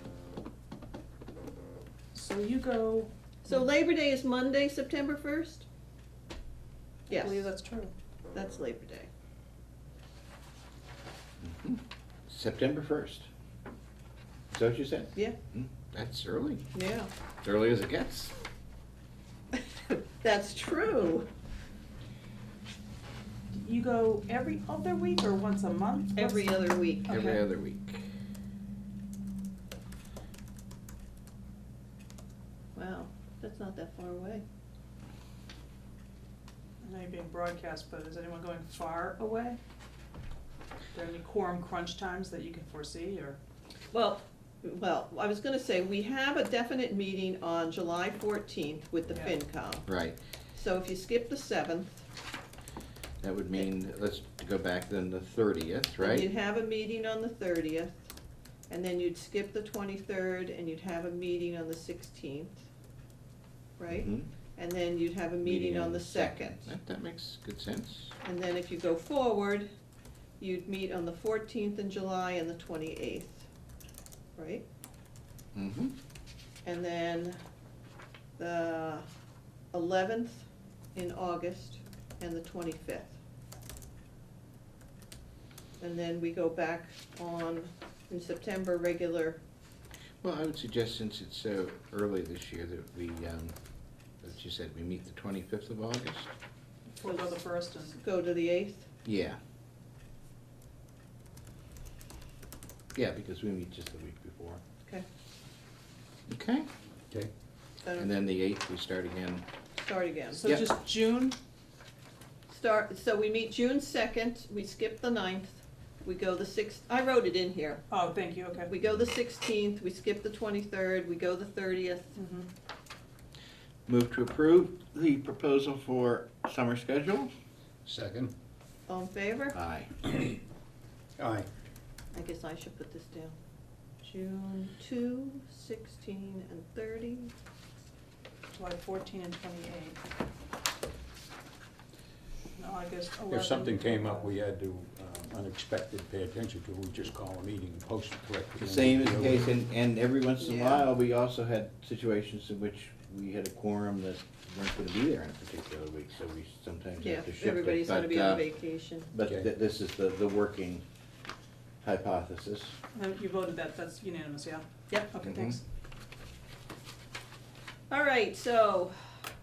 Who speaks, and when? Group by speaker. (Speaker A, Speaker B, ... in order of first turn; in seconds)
Speaker A: 2.1-3.6, 7.1-7.9, 23.5-27.4, 36.8-39.6, 40.9-43.4, 97.0-98.0, 110.3-111.4, 117.9-118.7, 122.2-122.5, 138.5-140.0, 142.6-144.3, 162.9-165.6
Speaker B: 3.4-5.7, 7.1-7.5, 8.3-9.1, 16.7-17.1, 20.2-21.3, 26.2-27.1, 32.8-34.4, 43.9-49.9, 50.5-52.1, 56.0-58.0, 58.7-62.7, 63.8-66.7, 68.2-69.7, 70.4-73.5, 74.4-74.7, 76.7-77.4, 78.4-79.1, 79.7-83.2, 85.8-89.4, 97.0-98.9, 109.8-110.5, 112.5-117.8, 118.7-122.2, 128.9-129.6, 132.1-133.4, 134.0-137.3, 150.4-150.9, 157.0-159.1, 167.9-169.0
Speaker C: 11.4-13.3, 14.5-16.7, 17.4-18.4, 27.1-28.1, 49.9-50.2, 53.2-56.3, 63.9-64.3, 65.4-68.1, 75.5-75.9, 90.2-93.5, 94.2-96.3, 99.0-99.4, 102.9-104.6, 106.3-106.7, 108.0-109.5, 123.9-127.3, 129.5-129.9, 148.6-158.4, 159.1-160.8, 161.8-162.8, 165.2-165.6
Speaker D: 127.8-128.3, 131.2-131.5, 143.3-149.5